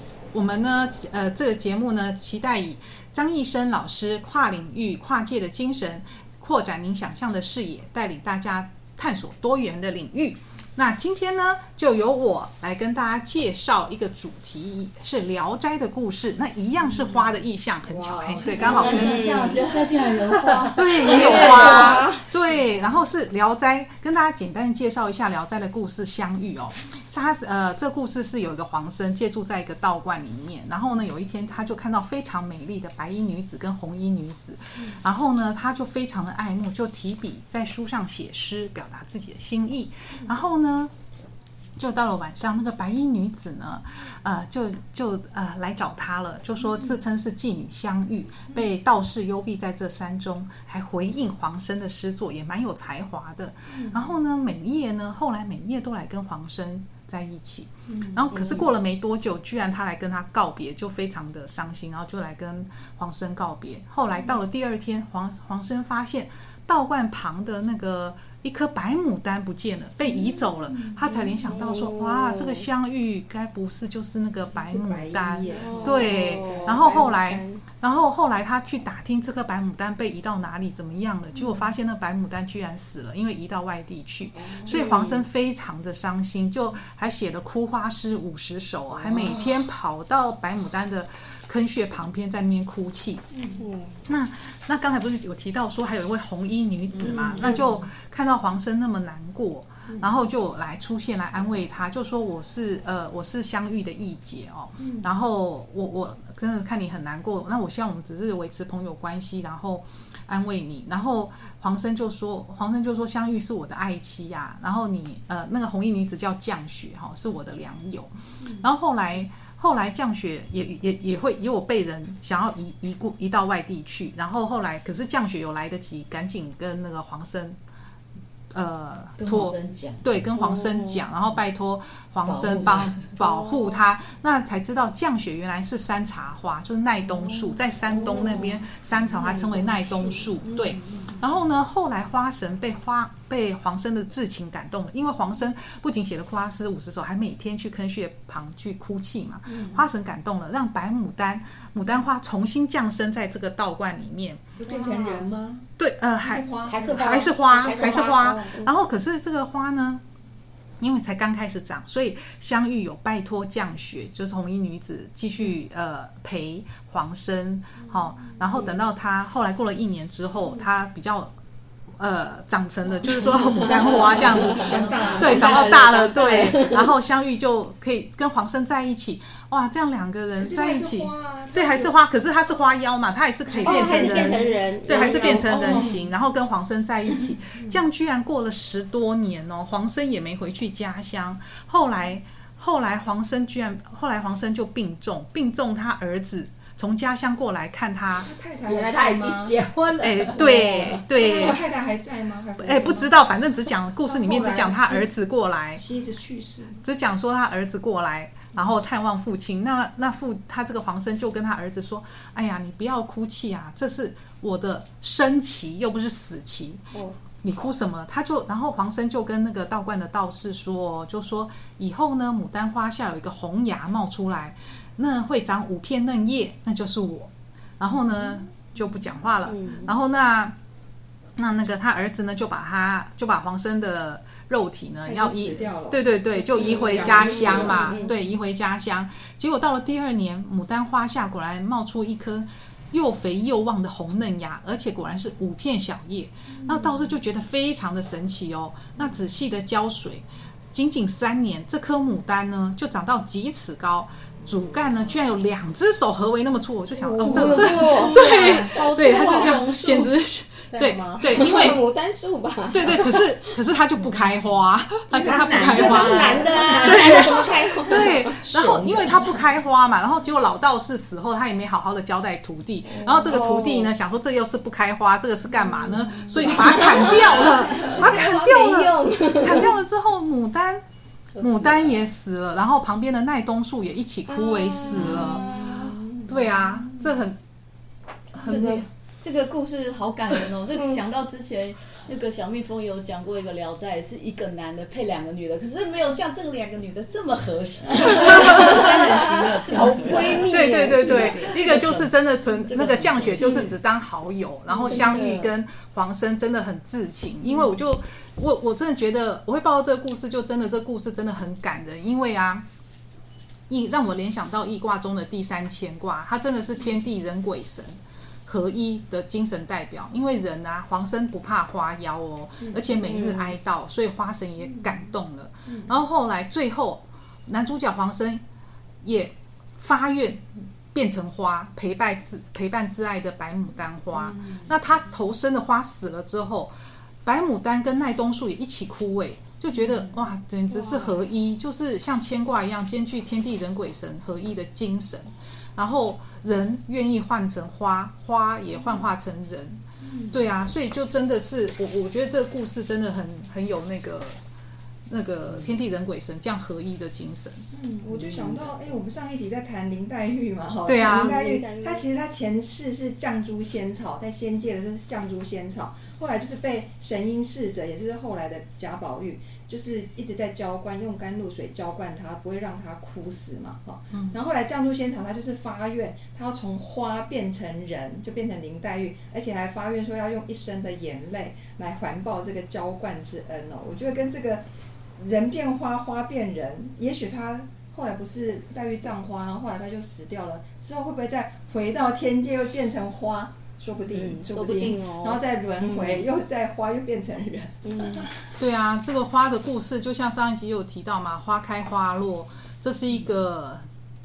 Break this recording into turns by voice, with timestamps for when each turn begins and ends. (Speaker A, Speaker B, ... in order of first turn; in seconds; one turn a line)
Speaker A: 0.3-19.2
Speaker B: 16.8-19.8
Speaker C: 18.6-22.0
Speaker D: 18.7-19.6
Speaker A: 20.7-40.9
Speaker D: 21.1-22.2
Speaker B: 22.4-22.9
Speaker A: 41.8-93.3
Speaker B: 46.7-47.0
Speaker B: 53.7-54.1
Speaker B: 57.9-58.3
Speaker D: 58.3-58.7
Speaker B: 70.0-71.6
Speaker D: 71.5-72.7
Speaker B: 74.5-77.2
Speaker D: 75.5-77.6
Speaker B: 81.3-81.7
Speaker B: 84.4-84.9
Speaker D: 84.7-85.3
Speaker B: 89.0-89.4
Speaker B: 93.3-93.6
Speaker D: 93.6-94.0
Speaker A: 94.1-127.6
Speaker E: 96.9-97.6
Speaker B: 97.2-97.8
Speaker B: 104.8-105.1
Speaker A: 128.5-154.4
Speaker C: 129.2-130.1
Speaker D: 130.4-131.0
Speaker C: 132.2-133.1
Speaker B: 137.9-138.5
Speaker B: 139.2-140.3
Speaker B: 149.5-149.8
Speaker B: 154.6-155.7
Speaker A: 155.8-160.0
Speaker B: 156.2-158.5
Speaker D: 156.7-158.7
Speaker A: 160.8-171.3
Speaker A: 172.0-174.6
Speaker B: 173.0-175.8
Speaker D: 173.7-176.9
Speaker C: 174.2-175.4
Speaker A: 175.2-198.3
Speaker B: 180.4-182.0
Speaker B: 183.5-186.0
Speaker D: 183.6-185.9
Speaker B: 198.1-199.5
Speaker E: 198.7-201.6
Speaker A: 200.0-201.6
Speaker B: 201.1-203.2
Speaker A: 202.6-205.8
Speaker B: 204.1-205.2
Speaker B: 205.7-206.8
Speaker A: 206.8-216.8
Speaker D: 216.9-217.2
Speaker A: 217.4-230.5
Speaker D: 229.4-229.9
Speaker A: 231.4-261.8
Speaker B: 235.0-238.1
Speaker D: 236.9-238.1
Speaker B: 246.6-247.1
Speaker B: 257.0-258.0
Speaker C: 257.2-260.1
Speaker D: 257.5-259.6
Speaker E: 258.2-258.8
Speaker E: 260.7-261.4
Speaker D: 261.3-263.6
Speaker A: 262.7-280.8
Speaker B: 265.1-269.2
Speaker D: 265.3-268.4
Speaker D: 272.9-273.9
Speaker B: 275.9-278.2
Speaker D: 276.4-279.7
Speaker E: 281.3-282.1
Speaker A: 281.4-285.7
Speaker D: 284.3-285.9
Speaker C: 284.9-285.4
Speaker B: 285.0-287.1
Speaker A: 286.3-287.4
Speaker A: 288.3-288.8
Speaker C: 288.4-303.8
Speaker D: 290.8-291.0
Speaker D: 298.2-301.5
Speaker A: 298.4-298.9
Speaker A: 300.5-312.6
Speaker B: 304.7-305.1
Speaker D: 304.9-305.5
Speaker A: 313.7-328.4
Speaker B: 322.6-322.9
Speaker D: 323.0-323.6
Speaker B: 324.6-325.0
Speaker B: 325.7-326.0
Speaker A: 329.0-336.7
Speaker B: 334.1-334.7
Speaker A: 337.2-354.4
Speaker B: 339.7-340.1
Speaker B: 340.7-341.1
Speaker B: 350.0-350.4
Speaker A: 355.1-358.8
Speaker B: 357.7-384.6
Speaker A: 360.9-361.4
Speaker D: 361.0-362.1
Speaker B: 385.2-398.5
Speaker D: 394.1-396.2
Speaker D: 397.8-398.3
Speaker A: 398.6-403.9